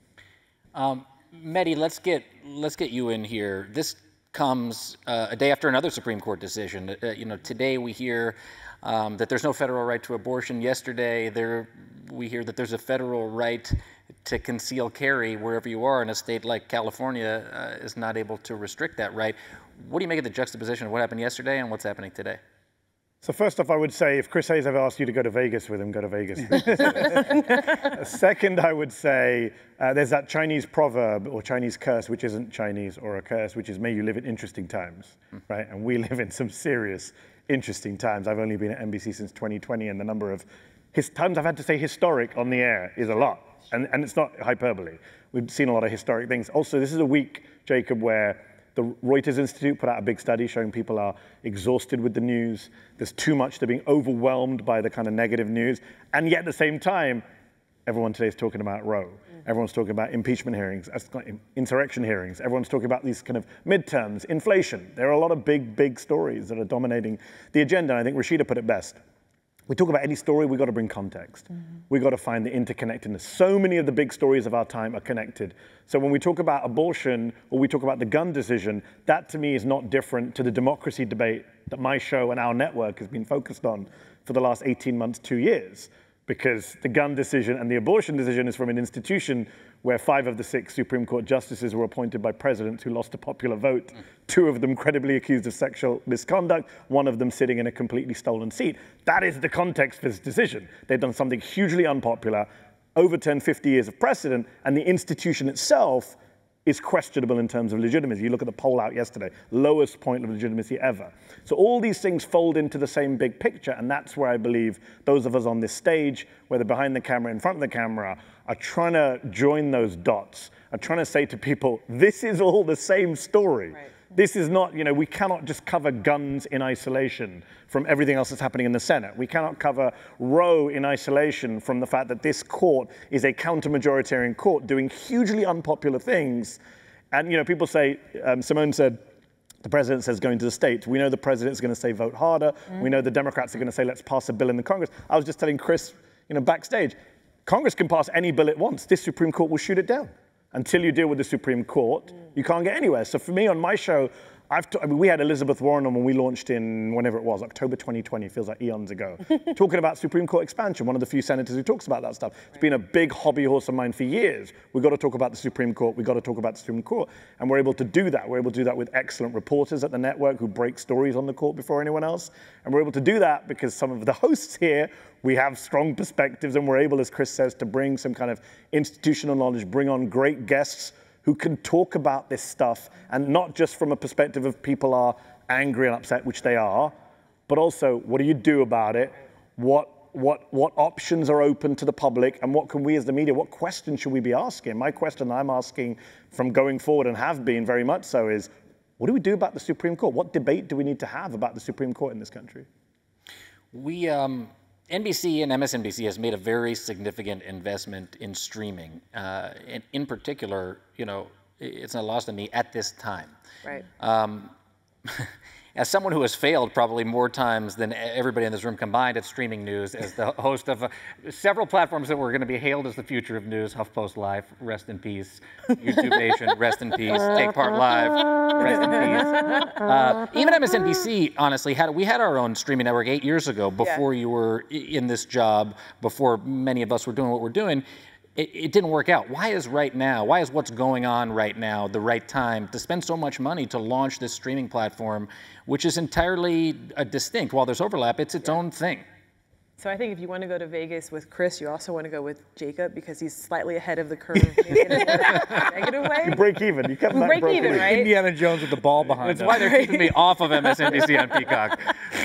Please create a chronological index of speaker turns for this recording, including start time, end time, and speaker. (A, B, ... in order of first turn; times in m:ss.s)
0:00.7-0:22.4 A
0:23.2-0:57.2 B
0:57.8-1:09.0 B
1:09.7-2:16.6 B
2:17.1-2:19.0 B
2:19.6-3:06.9 B
3:07.5-3:22.7 B
3:23.7-3:33.3 A
3:34.0-3:34.5 A
3:35.1-3:57.8 A
3:58.4-4:09.0 A
4:09.8-4:16.4 C
4:14.7-4:15.5 D
4:16.2-4:18.1 B
4:17.1-4:18.1 C
4:17.5-4:19.8 D
4:19.2-4:21.9 A
4:19.3-4:21.0 C